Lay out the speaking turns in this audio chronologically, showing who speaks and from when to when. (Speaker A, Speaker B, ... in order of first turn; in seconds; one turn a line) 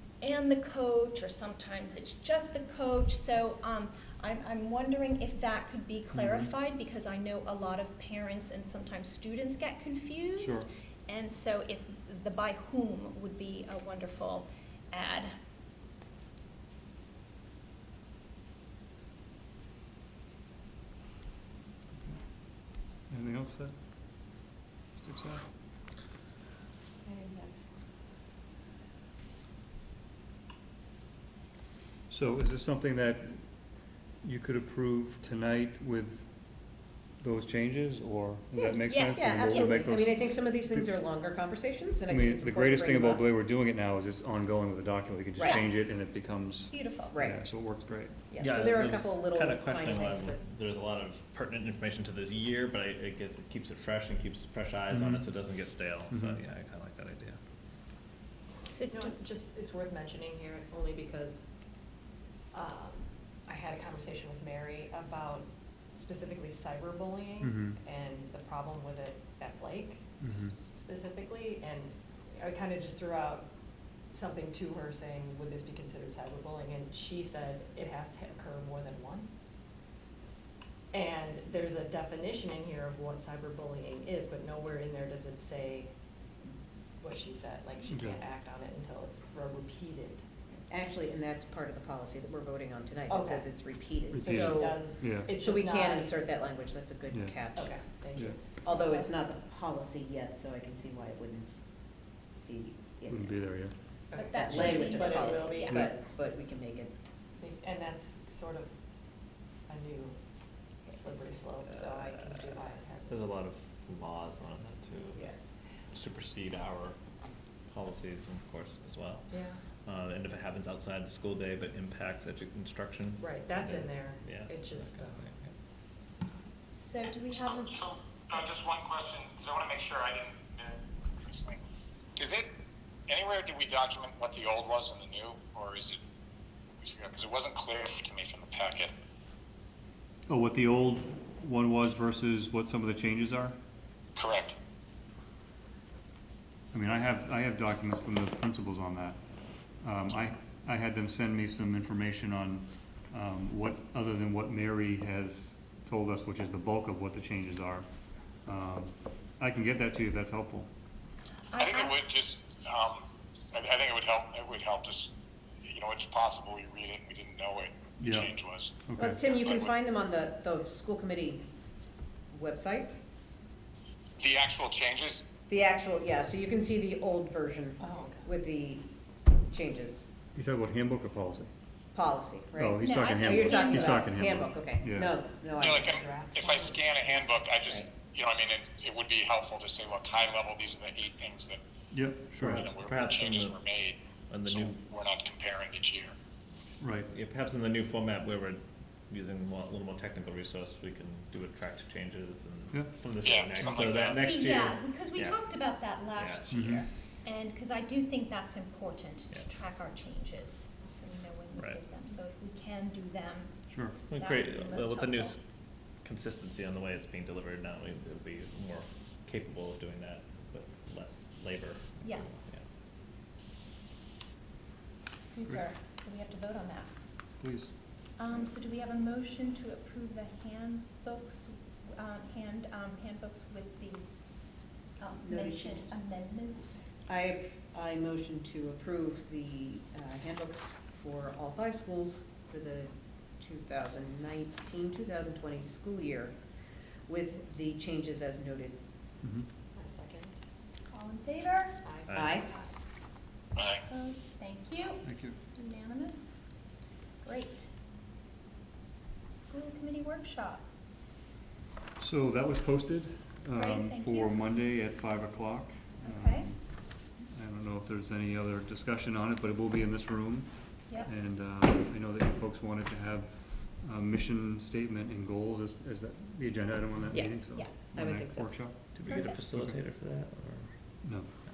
Speaker A: 0.2-15.3
Speaker B: 6.1-6.5
Speaker B: 10.4-10.7
Speaker B: 22.0-23.7
Speaker B: 24.9-25.4
Speaker C: 27.0-27.5
Speaker B: 32.1-33.4
Speaker B: 34.2-36.3
Speaker B: 37.2-40.9
Speaker A: 38.8-39.8
Speaker D: 39.1-43.2
Speaker B: 42.1-48.2
Speaker D: 45.4-45.6
Speaker A: 46.7-47.2
Speaker D: 47.1-47.4
Speaker D: 48.3-50.4
Speaker E: 48.4-57.4
Speaker B: 54.9-55.3
Speaker B: 56.1-56.4
Speaker A: 58.7-59.1
Speaker C: 58.9-61.5
Speaker C: 62.5-73.5
Speaker B: 67.4-67.8
Speaker B: 70.2-70.5
Speaker C: 74.1-79.3
Speaker C: 80.9-85.9
Speaker C: 87.0-90.2
Speaker B: 87.9-88.2
Speaker D: 90.7-97.7
Speaker C: 93.1-96.2
Speaker B: 94.1-95.3
Speaker B: 97.1-97.4
Speaker C: 97.5-99.1
Speaker D: 98.6-101.5
Speaker D: 102.4-103.4
Speaker B: 103.1-103.7
Speaker C: 104.1-105.9
Speaker A: 104.2-105.9
Speaker D: 104.3-106.9
Speaker C: 107.4-108.7
Speaker C: 109.7-110.2
Speaker C: 110.8-113.2
Speaker D: 111.7-112.5
Speaker E: 113.1-115.3
Speaker E: 115.9-117.0
Speaker E: 117.7-125.5
Speaker C: 119.3-119.6
Speaker C: 123.2-125.2
Speaker A: 126.7-127.8
Speaker F: 127.3-131.6
Speaker F: 132.2-132.5
Speaker F: 133.1-136.0
Speaker F: 136.8-138.9
Speaker B: 140.3-143.6
Speaker F: 144.2-144.6
Speaker B: 146.7-149.2
Speaker B: 149.8-157.8
Speaker B: 158.4-160.7
Speaker A: 161.5-161.9
Speaker F: 161.5-165.1
Speaker F: 165.6-169.7
Speaker B: 168.0-168.3
Speaker B: 168.8-169.2
Speaker D: 169.0-171.4
Speaker D: 172.3-172.9
Speaker F: 174.2-175.3
Speaker D: 175.5-178.8
Speaker C: 177.8-178.3
Speaker D: 179.5-180.0
Speaker B: 180.3-181.5
Speaker D: 181.9-186.0
Speaker B: 182.6-185.1
Speaker A: 182.8-184.0
Speaker F: 185.6-191.6
Speaker C: 185.6-187.3
Speaker B: 191.9-192.7
Speaker E: 192.3-193.6
Speaker F: 192.5-196.1
Speaker E: 194.3-194.8
Speaker B: 196.8-197.1
Speaker E: 197.1-205.4
Speaker B: 202.7-203.0
Speaker F: 203.2-204.2
Speaker A: 204.1-215.3
Speaker E: 206.0-206.8
Speaker B: 206.5-206.8
Speaker B: 213.7-214.0
Speaker E: 214.1-215.4
Speaker E: 216.0-222.6
Speaker A: 222.0-222.3
Speaker A: 225.1-226.9
Speaker B: 227.4-227.7
Speaker A: 228.2-234.1
Speaker A: 235.0-236.8
Speaker D: 235.2-235.9
Speaker D: 237.1-246.3
Speaker D: 247.1-248.8
Speaker B: 249.2-249.5
Speaker C: 249.7-250.3
Speaker A: 250.9-251.8
Speaker C: 251.8-252.7
Speaker E: 252.1-252.4
Speaker D: 252.1-252.5
Speaker A: 253.6-255.0
Speaker B: 255.0-255.3
Speaker A: 255.5-256.3
Speaker A: 257.2-257.7
Speaker A: 259.3-260.6
Speaker B: 262.0-266.6
Speaker A: 263.5-264.4
Speaker A: 266.0-266.5
Speaker B: 267.3-279.8
Speaker D: 277.1-278.7
Speaker A: 277.2-277.7
Speaker E: 278.9-280.7
Speaker A: 279.1-279.4
Speaker B: 281.0-281.3